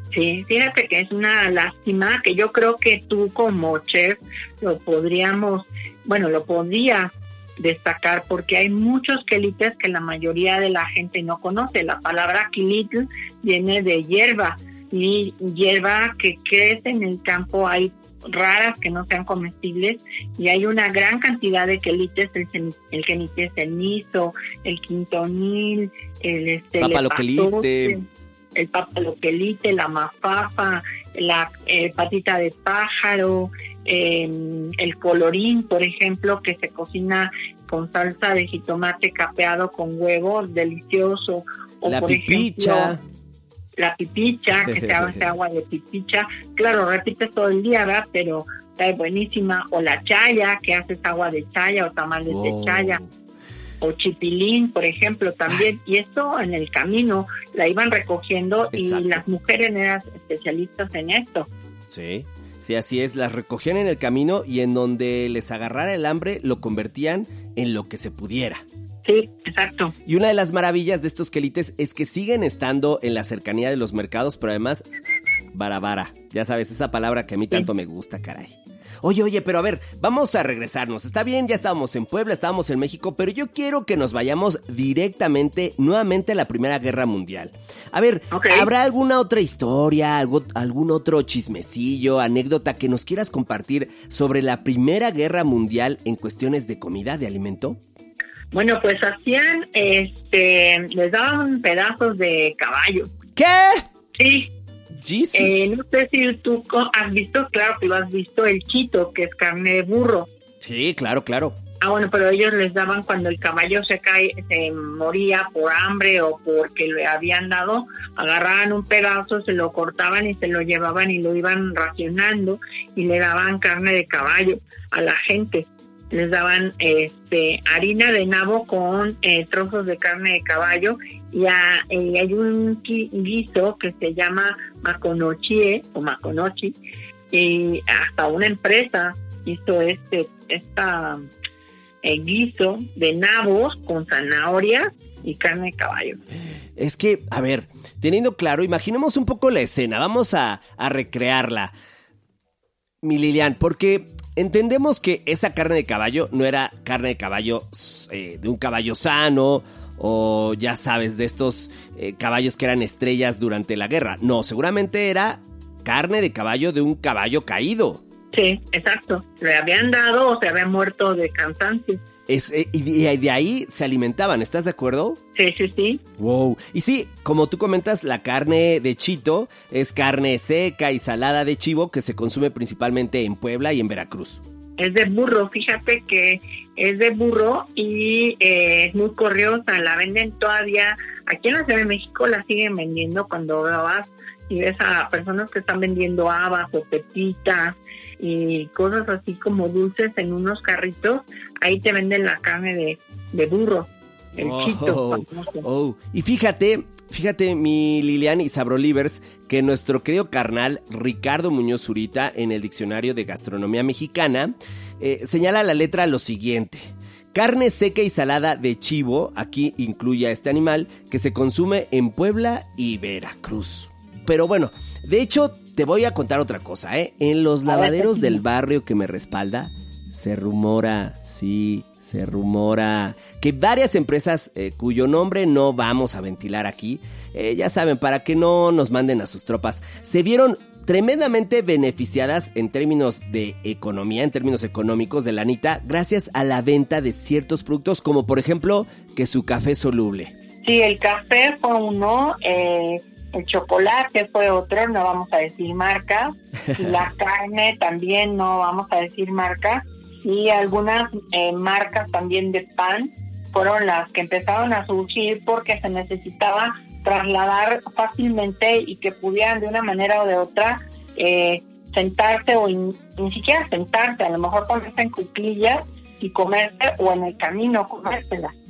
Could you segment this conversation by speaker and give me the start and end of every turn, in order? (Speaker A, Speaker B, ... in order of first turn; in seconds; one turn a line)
Speaker A: 0.1-28.0
Speaker B: 26.8-28.0
Speaker A: 28.5-42.9
Speaker B: 41.9-43.0
Speaker A: 43.8-53.0
Speaker B: 52.3-53.1
Speaker A: 53.8-61.5
Speaker B: 58.7-59.2
Speaker B: 61.9-68.6
Speaker A: 69.0-69.9
Speaker B: 70.0-74.8
Speaker B: 75.5-97.8
Speaker A: 88.3-88.7
Speaker A: 98.5-103.1
Speaker B: 103.3-103.8
Speaker A: 104.2-104.5
Speaker B: 105.0-105.7
Speaker A: 105.3-110.3
Speaker B: 110.6-111.5
Speaker A: 111.8-136.8
Speaker A: 137.3-141.2
Speaker A: 142.0-146.2
Speaker B: 146.8-151.7
Speaker B: 153.0-168.0
Speaker A: 168.3-172.0
Speaker B: 172.3-175.2
Speaker A: 175.3-176.0
Speaker B: 176.2-184.4
Speaker A: 184.8-205.6
Speaker B: 204.4-250.3
Speaker A: 227.7-228.4
Speaker A: 250.6-278.5